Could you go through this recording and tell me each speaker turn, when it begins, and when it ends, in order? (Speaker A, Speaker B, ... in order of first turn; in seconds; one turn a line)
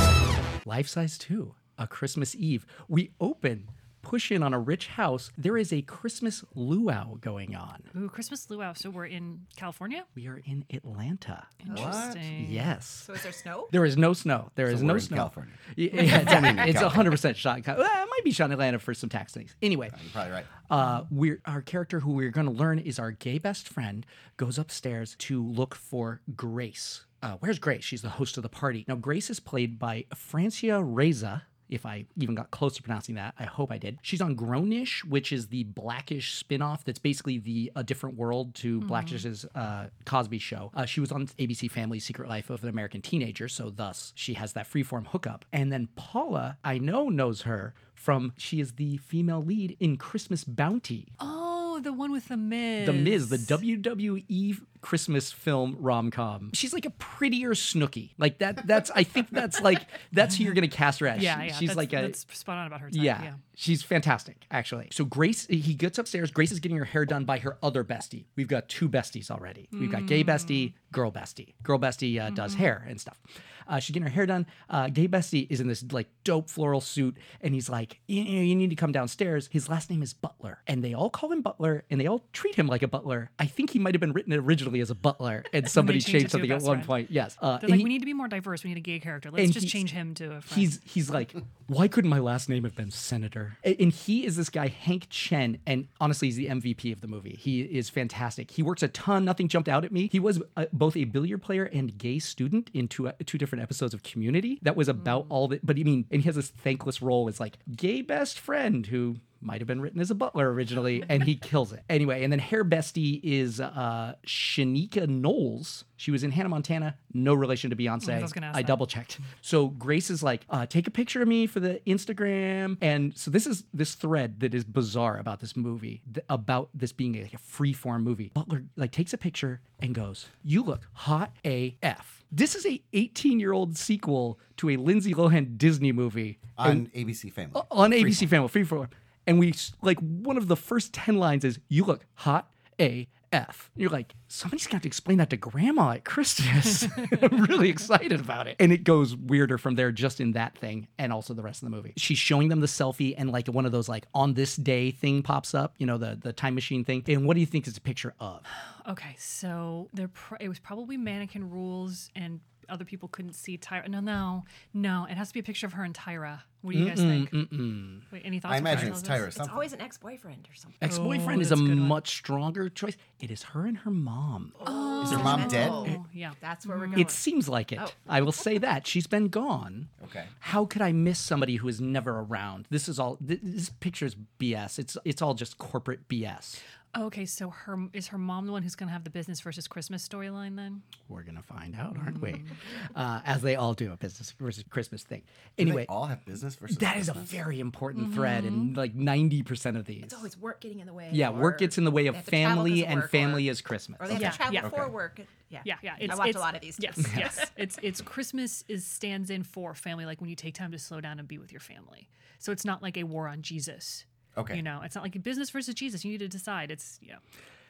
Speaker A: 0.7-7.9
Speaker B: 7.9-10.1
Speaker A: 10.2-13.1
Speaker B: 11.6-12.7
Speaker C: 11.7-12.3
Speaker D: 13.0-13.8
Speaker A: 13.7-20.0
Speaker C: 14.7-17.2
Speaker C: 19.9-20.5
Speaker A: 20.6-51.1
Speaker B: 38.8-39.2
Speaker B: 51.2-53.6
Speaker A: 52.8-62.2
Speaker B: 61.1-63.4
Speaker A: 62.9-88.0
Speaker B: 69.7-70.7
Speaker B: 72.3-72.7
Speaker B: 85.7-87.0
Speaker B: 87.6-90.7
Speaker A: 89.4-89.8
Speaker A: 90.5-136.9
Speaker B: 105.0-105.3
Speaker B: 118.0-118.8
Speaker C: 136.6-138.3
Speaker A: 137.5-158.5
Speaker B: 158.5-167.5
Speaker A: 166.7-168.1
Speaker B: 168.1-169.3
Speaker C: 168.5-169.7
Speaker A: 168.7-169.0
Speaker D: 169.3-170.8
Speaker A: 170.8-176.0
Speaker B: 170.8-172.0
Speaker D: 174.6-177.2
Speaker B: 174.6-177.0
Speaker C: 175.0-176.0
Speaker A: 176.9-179.9
Speaker C: 180.0-180.3
Speaker A: 180.4-186.6
Speaker B: 186.9-190.8
Speaker A: 191.1-195.9
Speaker B: 191.9-192.5
Speaker C: 195.6-197.4
Speaker A: 196.7-200.3
Speaker B: 197.9-198.7
Speaker D: 200.0-207.5
Speaker A: 201.1-204.4
Speaker B: 204.1-204.7
Speaker C: 204.6-205.0
Speaker B: 205.7-217.2
Speaker A: 207.0-207.4
Speaker C: 214.3-214.6